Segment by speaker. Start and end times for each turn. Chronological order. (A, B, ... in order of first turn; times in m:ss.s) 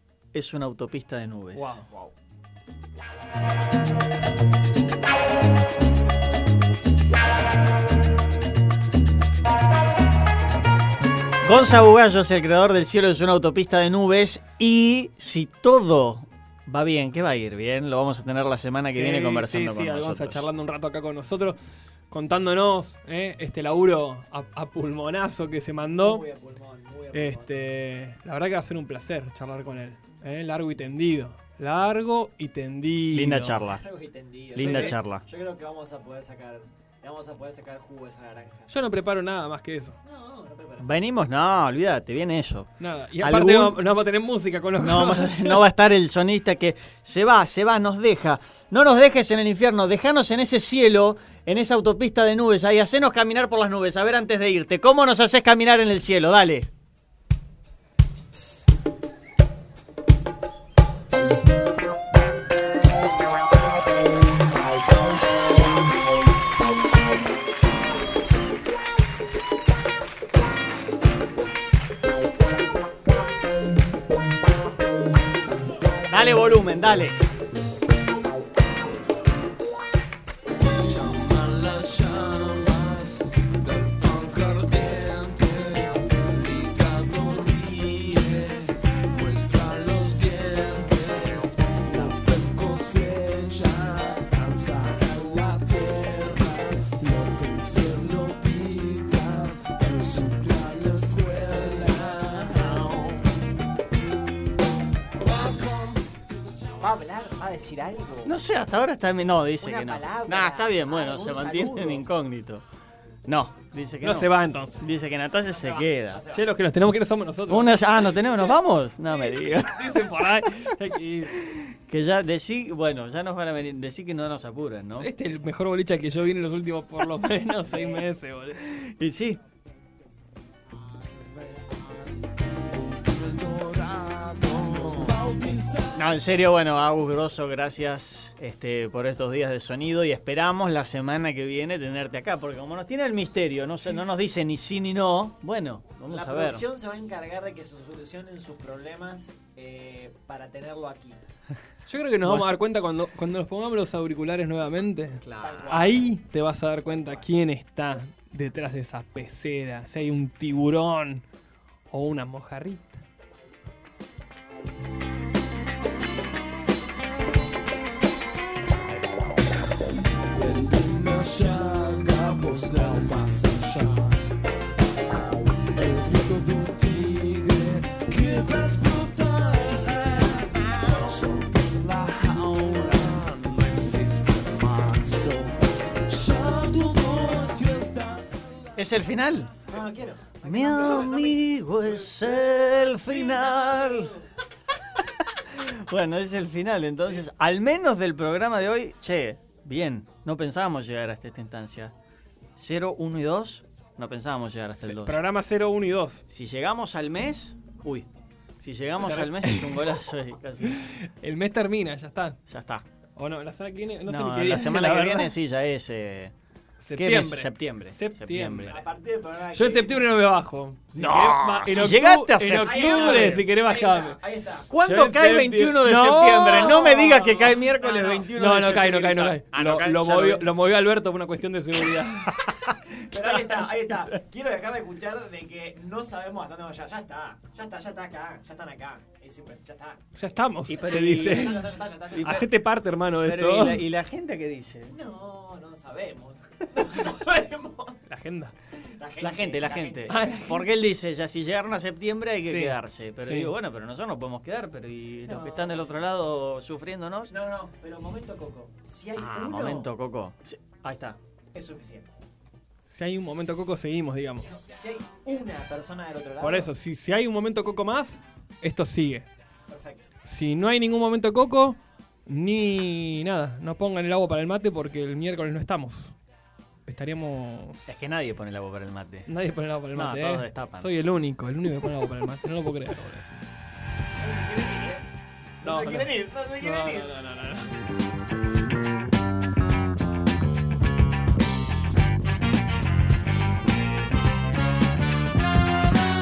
0:00.3-0:01.8 A
0:01.5-0:01.9 B
0:11.4-0:20.4 A
0:18.9-0:21.6 B
0:22.1-0:26.2 B
0:25.9-0:27.6 C
0:27.1-0:33.6 B
0:33.1-0:33.8 A
0:33.6-0:38.7 C
0:34.5-0:35.0 B
0:34.5-0:35.2 A
0:38.7-0:40.0 B
0:40.0-0:40.9 C
0:40.8-0:42.7 A
0:42.8-0:45.7 B
0:43.2-0:43.8 A
0:44.8-0:56.7 A
1:16.1-1:17.2 A
1:21.0-1:21.8 B
1:21.2-1:42.4 D
1:42.4-1:43.1 C
1:45.4-1:46.0 D
1:46.8-1:48.4 C
1:48.2-1:52.6 A
1:49.6-1:52.1 C
1:53.2-1:56.2 A
1:54.0-1:54.8 B
1:55.3-1:56.4 C
1:56.3-1:58.2 B
1:57.5-1:59.8 A
1:59.2-2:01.6 B
2:01.9-2:05.1 A
2:05.0-2:08.6 B
2:08.8-2:09.4 A
2:13.2-2:15.8 D
2:15.9-2:26.6 A
2:26.1-2:31.2 C
2:31.9-2:41.2 B
2:35.2-2:36.2 C
2:35.3-2:35.7 A
2:41.9-2:43.0 B
2:50.4-2:54.1 D
2:55.9-3:05.6 D
3:06.1-3:08.0 D
3:06.2-3:08.1 B
3:08.8-3:09.7 A
3:09.7-3:14.2 C
3:10.4-3:14.2 A
3:15.4-3:21.9 A
3:22.6-3:25.2 A
3:24.8-3:26.2 B
3:26.3-3:28.1 A
3:28.6-3:30.9 A
3:29.0-3:29.8 B
3:30.7-3:32.4 B
3:32.5-3:32.8 A
3:33.2-3:35.3 B
3:34.1-3:36.3 A
3:36.8-3:38.8 B
3:37.0-3:38.8 A
3:38.7-3:40.1 C
3:39.5-3:44.2 B
3:40.9-3:43.4 A
3:42.6-3:44.7 C
3:44.7-3:50.4 A
3:44.8-3:47.6 B
3:46.6-3:48.3 C
3:48.3-3:52.3 B
3:49.6-3:50.1 C
3:52.9-4:00.0 C
4:00.2-4:03.8 B
4:00.7-4:01.6 A
4:00.8-4:02.5 C
4:02.2-4:02.4 A
4:03.2-4:04.9 A
4:04.9-4:08.0 C
4:08.1-4:08.5 B
4:08.8-4:10.2 C
4:09.2-4:17.3 A
4:10.1-4:10.7 B
4:12.4-4:13.5 B
4:15.2-4:15.9 C
4:17.3-4:19.9 C
4:19.2-4:21.2 A
4:21.5-4:22.1 C
4:22.8-4:24.5 B
4:24.4-4:26.7 C
4:26.4-4:29.3 B
4:29.7-4:30.1 C
4:30.2-4:36.1 B
4:36.9-4:37.9 B
4:37.9-4:39.3 A
4:39.3-4:43.2 B
4:39.9-4:40.9 A
4:44.2-4:45.0 C
4:45.6-4:47.1 C
4:45.6-4:47.8 B